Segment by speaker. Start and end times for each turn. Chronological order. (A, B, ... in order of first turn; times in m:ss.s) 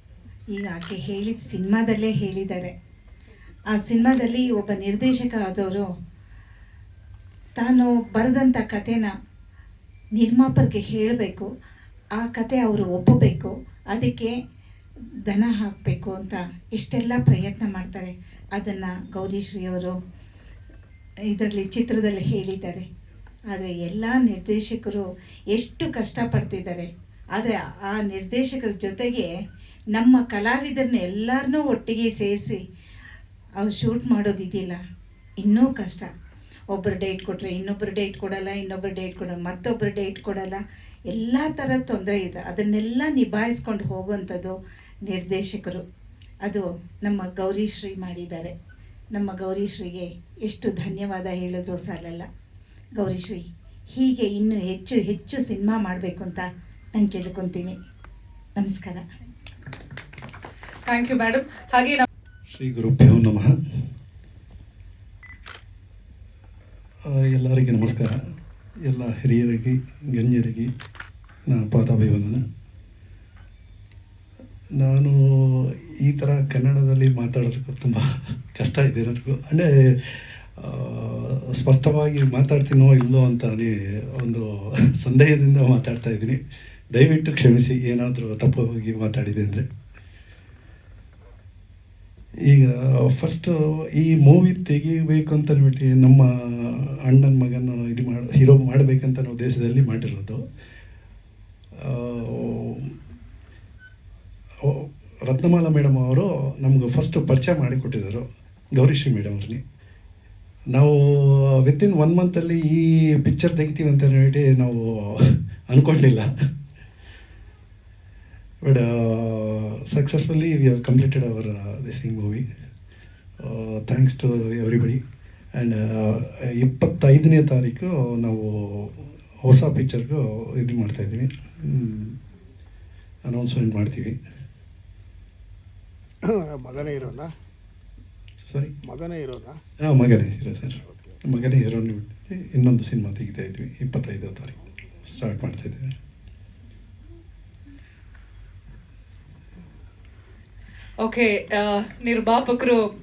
0:00.5-0:02.7 A
0:03.7-0:05.8 A
0:07.6-0:09.1 A
0:10.2-0:11.5 A
0:12.2-0:14.3 A
0:15.3-0:20.0 A
0:21.3-0:22.9 A
0:23.5-0:29.3 A
0:29.9-0:32.6 A
0:33.6-0:34.8 A
0:35.4-0:36.1 A
0:36.7-0:40.6 A
0:41.1-0:44.6 A
0:45.1-0:45.8 A
0:46.4-0:48.5 A
0:49.1-0:52.2 A
0:53.0-0:57.8 A
0:58.6-0:59.0 A
1:00.9-1:02.0 B
1:02.5-1:03.5 C
1:07.1-1:08.2 C
1:08.8-1:10.7 C
1:11.5-1:12.4 C
1:14.8-1:26.4 C
1:26.9-1:29.6 C
1:32.5-1:40.4 C
1:41.8-1:42.9 C
1:44.6-1:49.6 C
1:50.7-1:56.3 C
1:58.6-2:02.5 C
2:03.4-2:05.0 C
2:05.6-2:12.2 C
2:13.2-2:14.2 C
2:16.3-2:17.3 D
2:18.4-2:18.7 C
2:18.8-2:19.6 D
2:19.8-2:25.9 C
2:20.8-2:21.2 D
2:31.0-2:32.8 B